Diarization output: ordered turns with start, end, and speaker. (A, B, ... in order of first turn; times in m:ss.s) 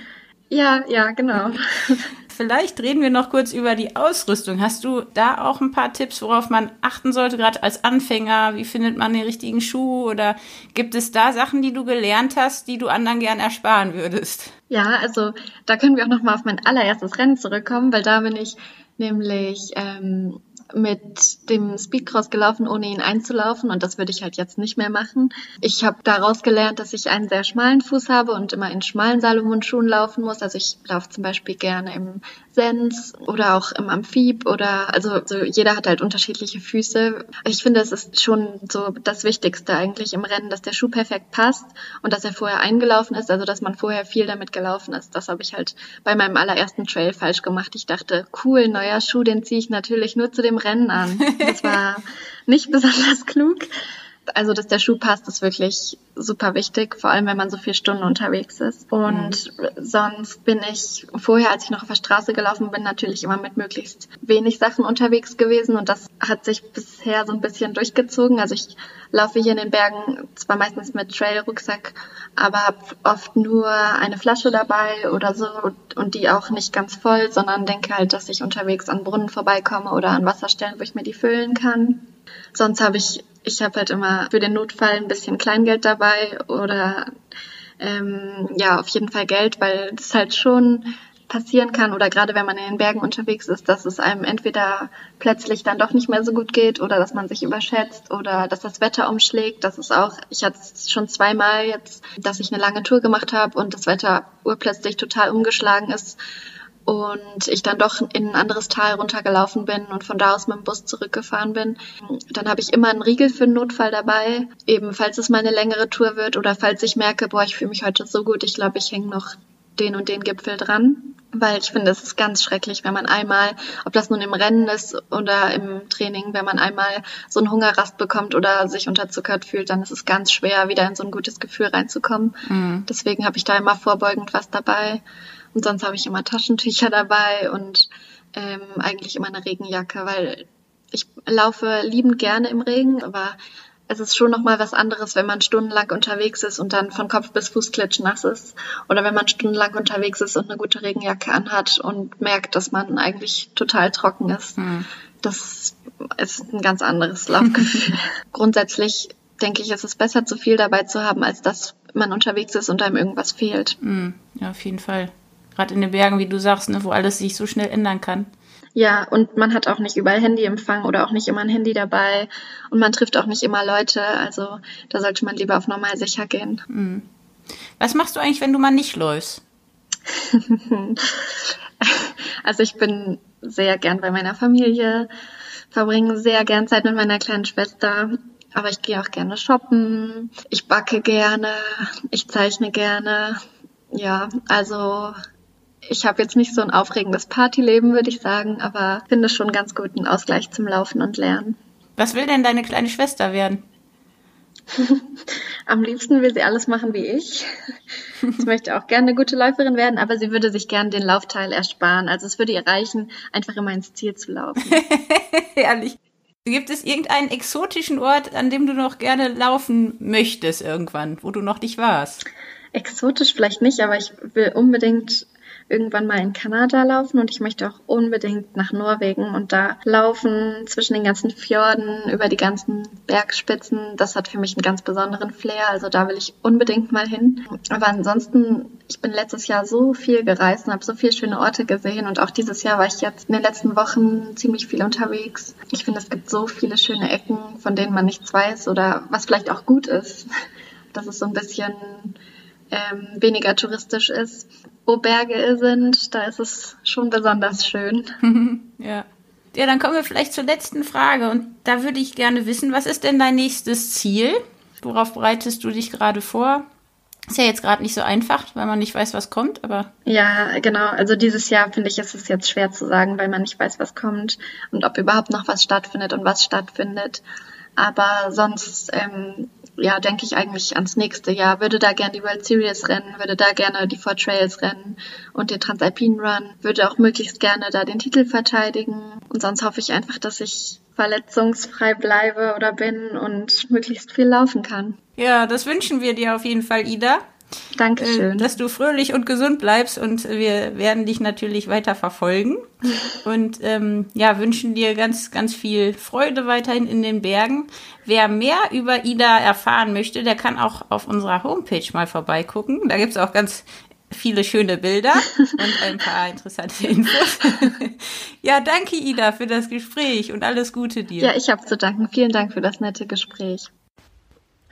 0:00.5-0:02.1 A
0:02.3-0:14.5 B
0:14.7-0:53.7 A
0:51.3-0:51.8 B
0:54.3-1:27.1 A
0:59.1-0:59.4 B
1:27.8-1:46.2 A
1:46.8-2:15.0 A
2:12.4-2:12.9 B
2:15.5-2:23.4 A
2:23.9-2:34.6 A
2:34.6-2:34.9 B
2:35.2-2:43.8 A
2:43.8-2:48.3 B
2:48.8-2:56.6 A
2:56.7-2:57.0 B
2:57.8-2:59.4 B
3:00.2-3:05.1 A
3:05.7-3:13.4 A
3:13.9-3:15.2 A
3:15.9-3:21.6 A
3:22.0-3:23.6 B
3:24.7-3:25.1 A
3:25.7-3:27.5 A
3:28.3-3:34.8 A
3:34.7-3:42.2 B
3:42.7-4:10.3 A
4:10.9-4:12.2 A
4:12.7-4:18.1 A
4:18.2-4:26.6 B
4:27.3-4:29.9 B
4:30.0-4:37.2 A
4:37.8-4:55.0 A
4:55.2-4:57.2 B
4:57.8-4:58.5 A
4:58.0-5:21.3 B
5:21.2-5:23.7 A